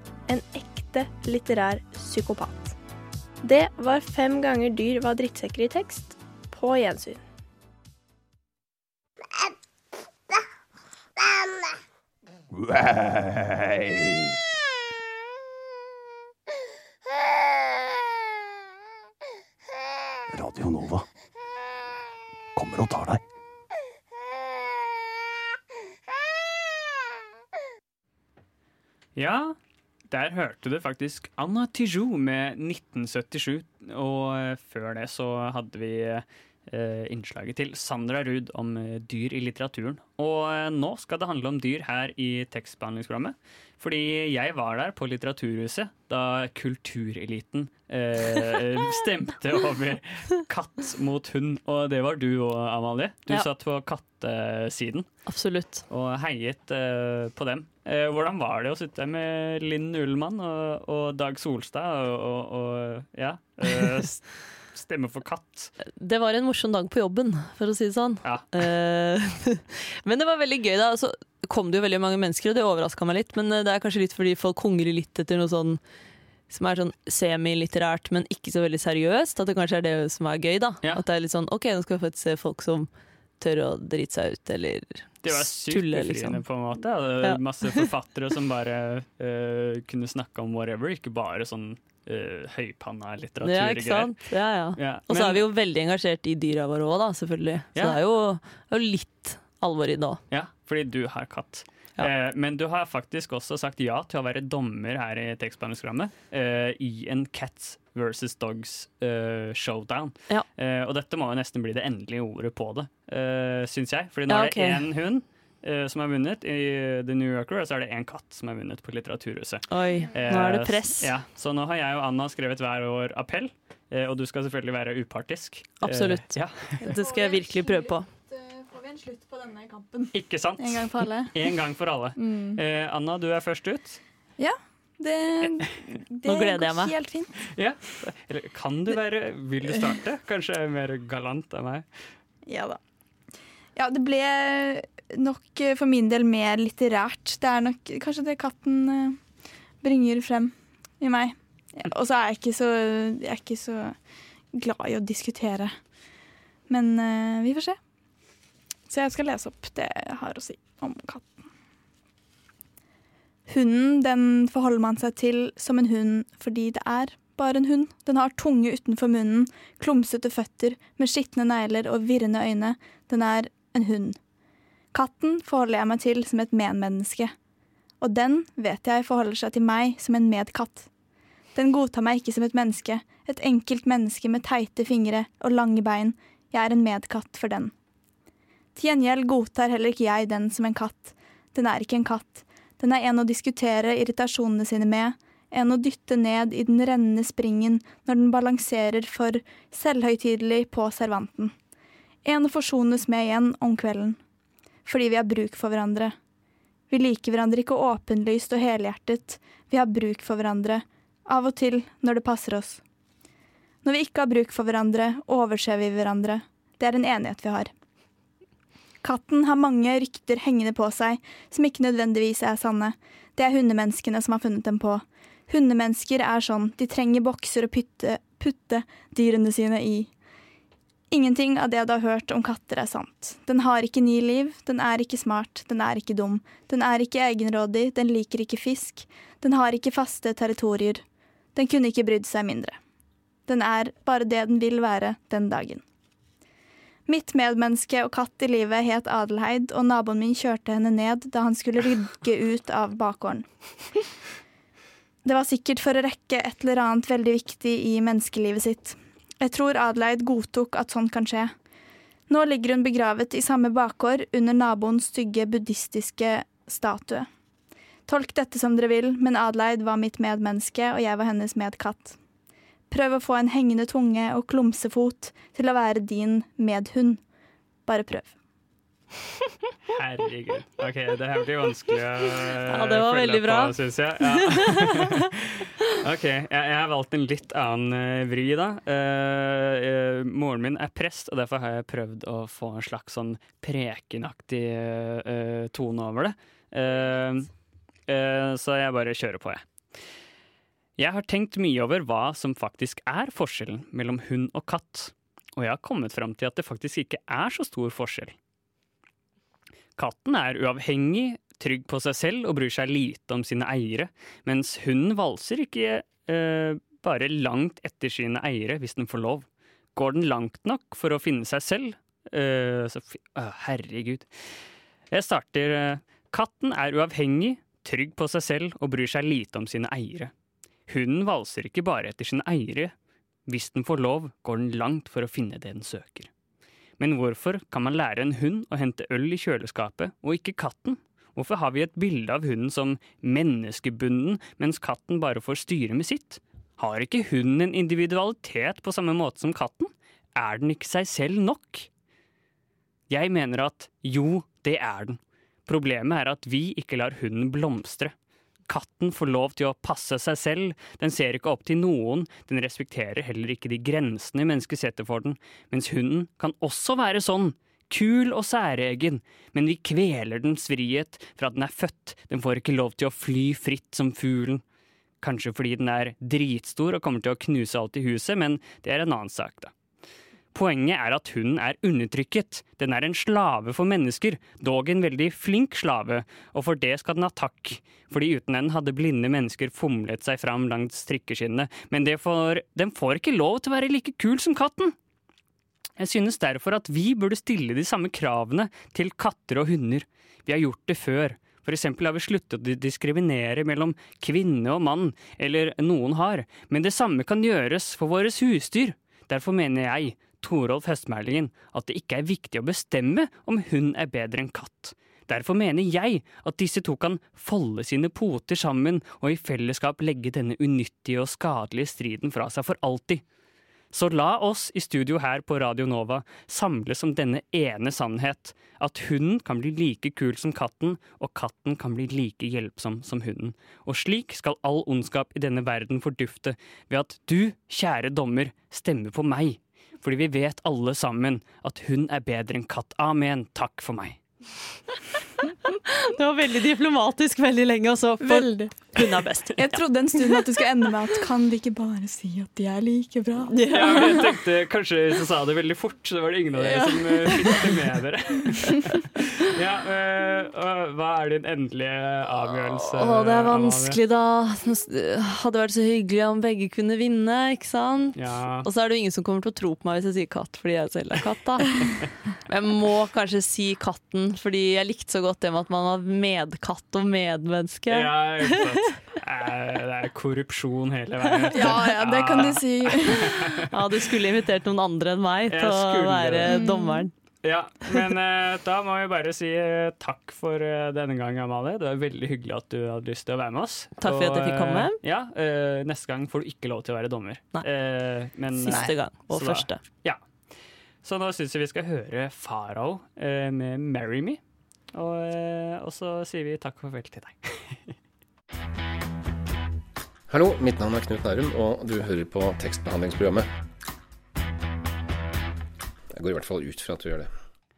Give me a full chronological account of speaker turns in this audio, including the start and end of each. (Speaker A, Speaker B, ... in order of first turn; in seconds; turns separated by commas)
Speaker A: 0.3-2.7, Speaker A: 3.4-7.2, Speaker B: 12.5-14.3, Speaker B: 20.3-21.0, Speaker B: 22.5-23.2, Speaker C: 29.1-29.6, Speaker C: 30.1-55.1, Speaker D: 55.2-55.8, Speaker C: 55.9-65.7, Speaker D: 65.8-75.8, Speaker C: 68.2-68.5, Speaker D: 76.5-82.9, Speaker D: 83.4-86.4, Speaker C: 85.2-94.2, Speaker D: 87.2-87.9, Speaker D: 93.4-100.2, Speaker C: 94.8-95.4, Speaker C: 97.7-98.0, Speaker C: 100.3-126.8, Speaker D: 114.3-114.9, Speaker D: 119.7-121.1, Speaker D: 125.8-128.1, Speaker E: 126.8-131.4, Speaker C: 130.1-134.0, Speaker E: 132.2-132.6, Speaker E: 134.4-137.5, Speaker D: 136.2-136.9, Speaker C: 137.5-141.8, Speaker E: 142.5-142.8, Speaker E: 143.8-149.2, Speaker E: 149.8-153.9, Speaker E: 154.5-155.8, Speaker E: 156.7-157.8, Speaker E: 158.9-161.5, Speaker E: 163.5-174.2, Speaker E: 174.9-177.3, Speaker E: 178.0-180.9, Speaker E: 181.5-187.7, Speaker E: 188.8-201.5, Speaker E: 202.2-204.2, Speaker E: 204.8-206.1, Speaker E: 206.9-212.8, Speaker E: 213.8-217.7, Speaker E: 219.0-230.1, Speaker E: 231.1-241.0, Speaker E: 241.5-242.8, Speaker E: 243.5-245.8, Speaker E: 247.1-253.4, Speaker E: 255.2-261.5, Speaker E: 262.3-267.3, Speaker E: 268.1-272.2, Speaker E: 272.9-277.2, Speaker E: 277.9-278.4, Speaker C: 279.9-297.5, Speaker D: 282.7-285.1, Speaker C: 298.1-299.6, Speaker C: 301.0-308.4, Speaker C: 310.0-324.6, Speaker C: 325.1-330.3, Speaker C: 330.9-332.9, Speaker C: 333.4-336.3, Speaker C: 337.0-351.9, Speaker C: 353.1-358.1, Speaker C: 358.7-374.6, Speaker C: 375.2-379.7, Speaker C: 380.5-394.9, Speaker C: 396.0-423.2, Speaker C: 423.9-444.2, Speaker D: 445.9-450.5, Speaker E: 448.2-449.0, Speaker E: 449.5-453.6, Speaker D: 453.5-454.3, Speaker C: 453.7-464.0, Speaker D: 456.7-457.3, Speaker D: 463.0-478.7, Speaker C: 468.1-468.7, Speaker C: 477.9-483.9, Speaker D: 481.4-481.8, Speaker E: 481.5-483.4, Speaker D: 483.7-487.1, Speaker C: 485.5-486.6, Speaker E: 486.5-487.1, Speaker C: 487.4-500.2, Speaker D: 494.0-495.0, Speaker D: 498.5-499.8, Speaker C: 501.0-504.4, Speaker C: 504.9-508.0, Speaker F: 510.3-513.5, Speaker F: 516.2-517.3